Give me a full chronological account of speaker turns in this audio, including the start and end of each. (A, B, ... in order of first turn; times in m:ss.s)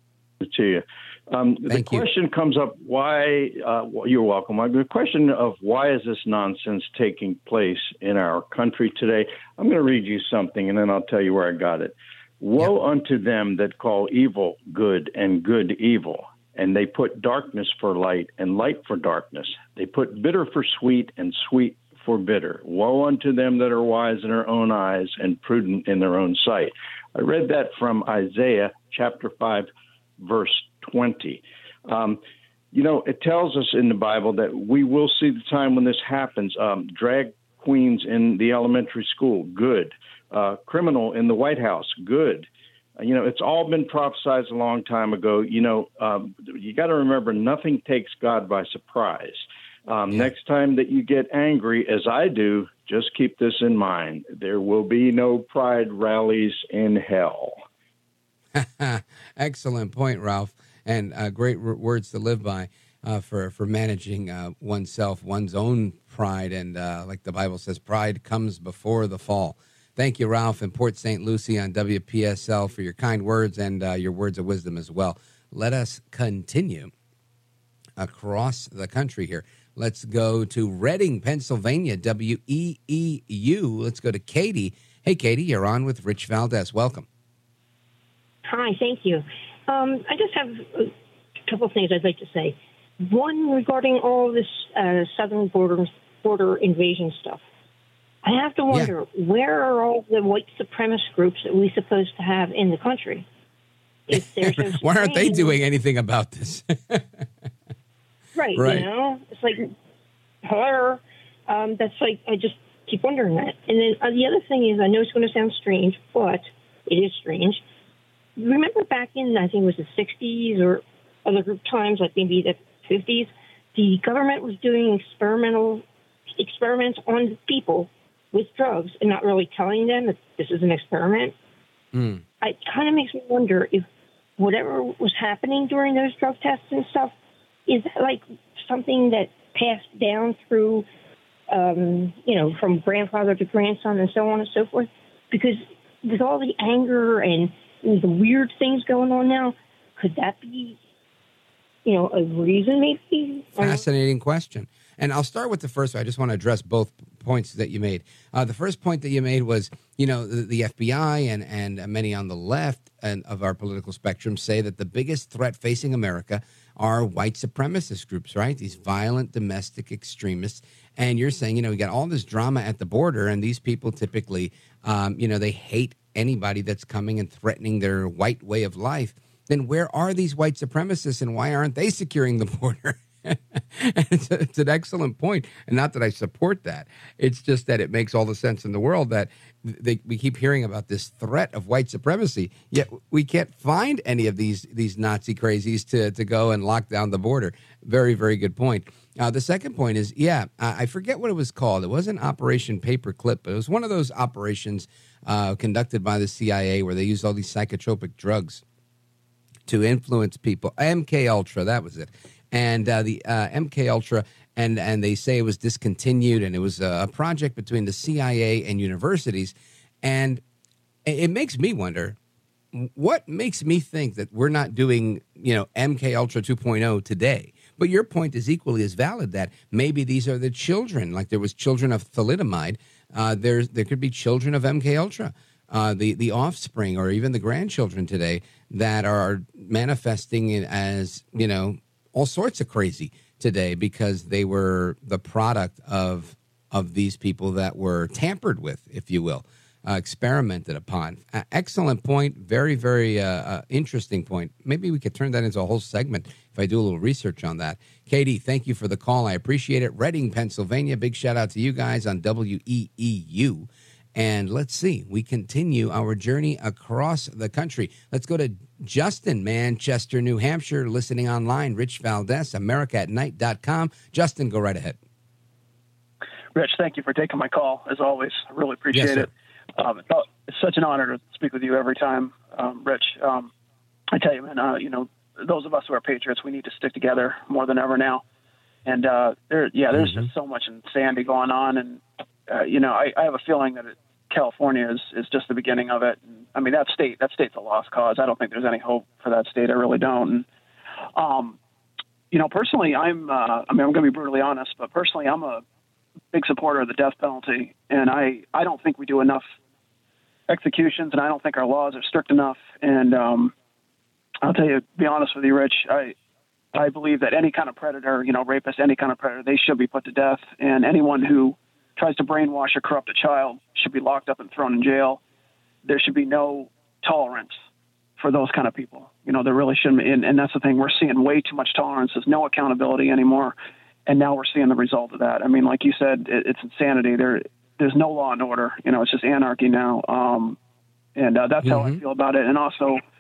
0:00.4-0:29.7 A
0:01.7-0:02.1 B
0:30.2-0:32.2 A
0:32.7-0:57.6 A
0:58.5-1:16.9 B
1:18.0-1:27.1 B
1:28.4-1:30.9 C
1:31.5-1:37.4 C
1:38.2-1:43.2 C
1:44.1-1:45.6 C
1:44.1-1:47.2 B
1:48.4-1:49.7 C
1:48.6-1:48.9 B
1:50.4-1:57.6 C
1:58.4-2:11.4 C
2:11.9-2:12.2 B
2:12.4-2:13.9 C
2:14.4-2:17.1 C
2:17.7-2:20.9 C
2:21.5-2:30.8 C
2:31.8-2:33.8 C
2:33.6-3:28.6 B
3:29.7-3:40.4 B
3:41.1-3:42.2 B
3:42.7-4:35.0 B
4:36.5-4:43.5 D
4:38.9-4:39.3 B
4:44.1-4:48.2 D
4:48.9-5:00.5 D
4:49.9-4:50.3 B
5:01.2-5:01.6 D
5:02.3-5:05.6 D
5:06.3-5:09.5 D
5:10.5-5:13.5 D
5:14.4-5:16.2 D
5:16.7-5:25.2 D
5:25.8-5:27.6 D
5:28.2-5:33.6 D
5:34.1-5:40.6 D
5:41.2-5:43.0 D
5:41.6-5:42.0 B